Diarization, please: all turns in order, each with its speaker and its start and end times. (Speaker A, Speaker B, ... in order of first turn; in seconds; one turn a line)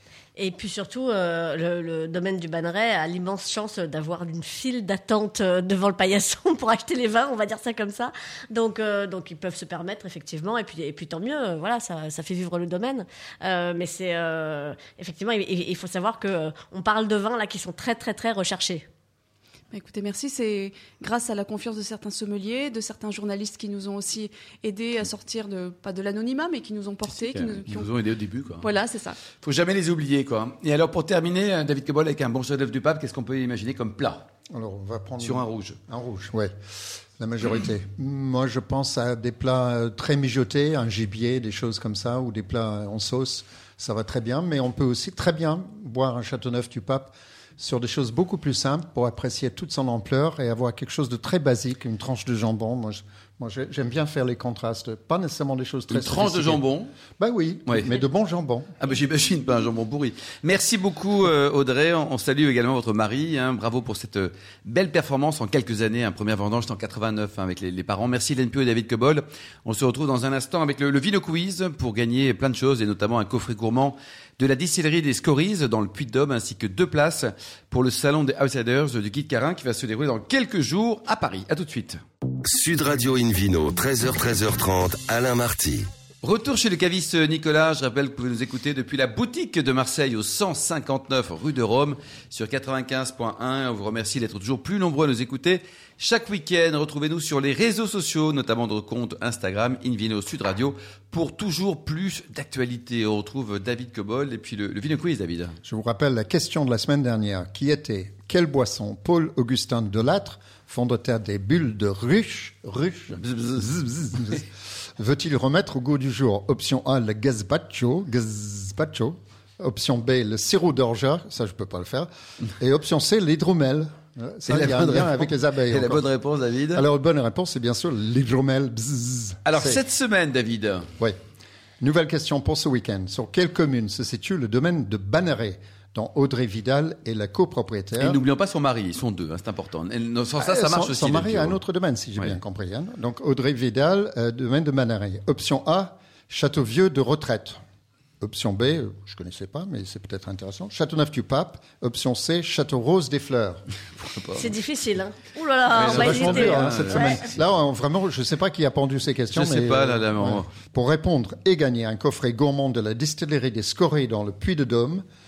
Speaker A: 0.4-18.9
Speaker B: 19.7-27.9
Speaker C: 27.1-28.7
Speaker B: 28.6-29.2
Speaker C: 29.4-34.3
Speaker D: 34.5-56.6
Speaker C: 35.2-35.8
Speaker C: 55.9-56.9
Speaker D: 57.2-58.8
Speaker C: 57.7-57.9
Speaker C: 58.8-82.0
Speaker E: 82.4-85.9
Speaker C: 86.2-105.6
Speaker D: 105.6-126.1
Speaker C: 113.2-114.2
Speaker C: 124.5-126.8
Speaker D: 126.7-129.8
Speaker C: 129.4-130.9
Speaker D: 131.8-138.2
Speaker C: 138.0-141.6
Speaker D: 140.4-147.6
Speaker D: 148.2-153.6
Speaker C: 154.0-154.5
Speaker A: 154.3-157.3
Speaker C: 155.7-157.4
Speaker D: 155.7-165.0
Speaker C: 159.3-160.5